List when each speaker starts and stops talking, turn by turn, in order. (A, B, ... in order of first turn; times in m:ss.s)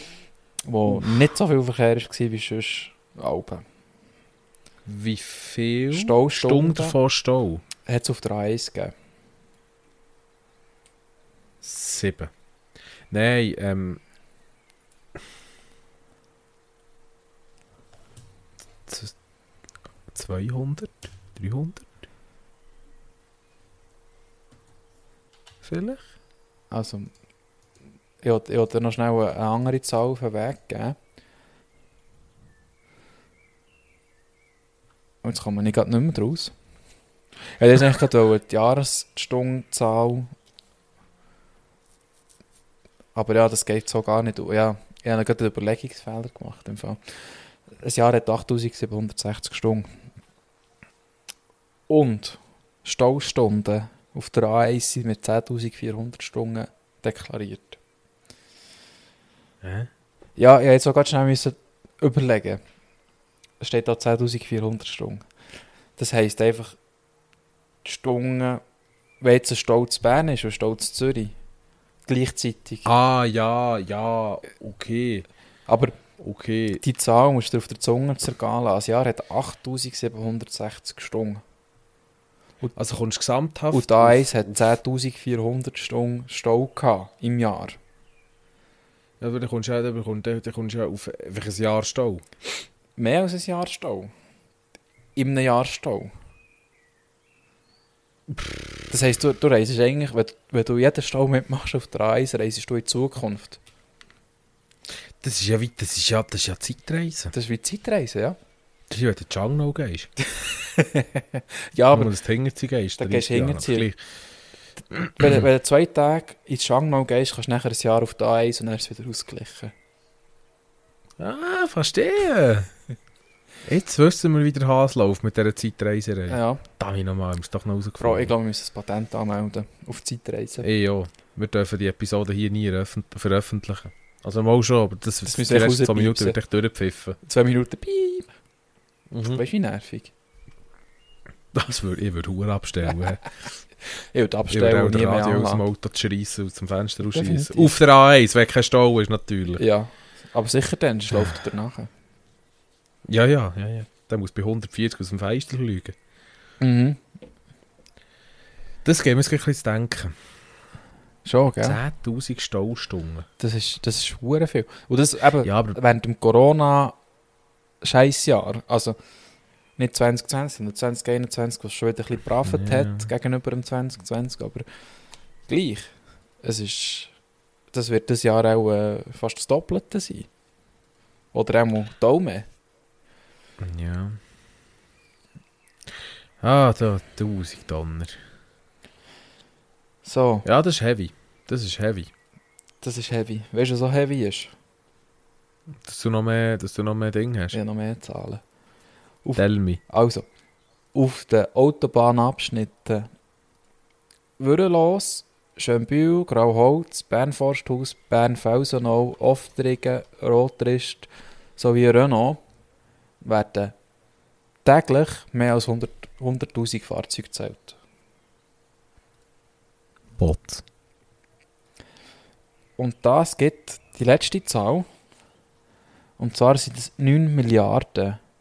0:00.6-0:03.6 A
0:04.8-0:07.6 B
0:05.9-0:07.0 A
0:07.8-0:08.9 A
0:11.6-0:12.3 B
0:13.1-0:14.0 B
0:18.8-0:19.1 B
0:20.1-0:21.9 B
0:25.6-0:26.0 B
0:26.7-0:27.1 A
0:28.2-0:31.0 A
0:35.2-0:36.5 A
0:37.6-0:40.3 A
0:43.1-0:47.0 A
0:47.8-0:49.9 A
0:51.9-0:57.8 A
0:59.6-0:59.9 B
1:00.4-1:02.6 A
1:03.6-1:05.2 A
1:06.0-1:06.8 A
1:07.8-1:08.6 A
1:09.2-1:11.3 A
1:12.0-1:12.9 A
1:12.8-1:15.2 B
1:15.7-1:16.0 A
1:16.2-1:16.8 B
1:16.8-1:21.4 A
1:22.7-1:24.6 B
1:23.7-1:27.8 A
1:29.2-1:32.2 B
1:33.0-1:34.1 A
1:35.1-1:36.1 A
1:38.3-1:38.7 B
1:38.9-1:43.6 A
1:45.2-1:47.3 B
1:47.3-1:48.4 A
1:48.9-1:50.1 B
1:50.4-1:52.1 A
1:51.9-1:54.0 B
1:53.0-1:53.9 A
1:54.9-1:55.4 B
1:55.1-1:59.7 A
2:01.2-2:02.7 B
2:03.6-2:08.3 B
2:06.3-2:06.6 A
2:08.0-2:10.7 A
2:10.6-2:17.2 B
2:15.2-2:16.4 A
2:17.2-2:18.3 A
2:19.1-2:19.4 B
2:19.3-2:20.1 A
2:21.5-2:23.4 B
2:24.1-2:25.6 A
2:24.5-2:29.6 B
2:27.1-2:27.8 A
2:29.6-2:31.9 A
2:33.0-2:36.0 B
2:36.6-2:37.0 A
2:38.8-2:40.1 B
2:41.2-2:41.8 A
2:41.6-2:43.3 B
2:43.4-2:47.0 A
2:45.4-2:45.8 B
2:47.8-2:49.0 A
2:49.8-2:54.6 A
2:52.4-2:53.1 B
2:55.5-2:57.1 A
2:57.7-3:00.3 A
3:01.3-3:02.5 A
3:03.6-3:04.2 B
3:06.4-3:08.2 B
3:10.0-3:10.4 A
3:10.4-3:12.1 B
3:12.8-3:14.5 A
3:15.8-3:17.6 B
3:17.5-3:18.4 A
3:19.2-3:20.3 A
3:19.4-3:19.8 B
3:20.9-3:23.1 A
3:24.4-3:32.4 A
3:33.2-3:33.7 A
3:34.6-3:37.8 A
3:40.2-3:40.6 B
3:42.8-3:44.8 A
3:46.2-3:48.2 A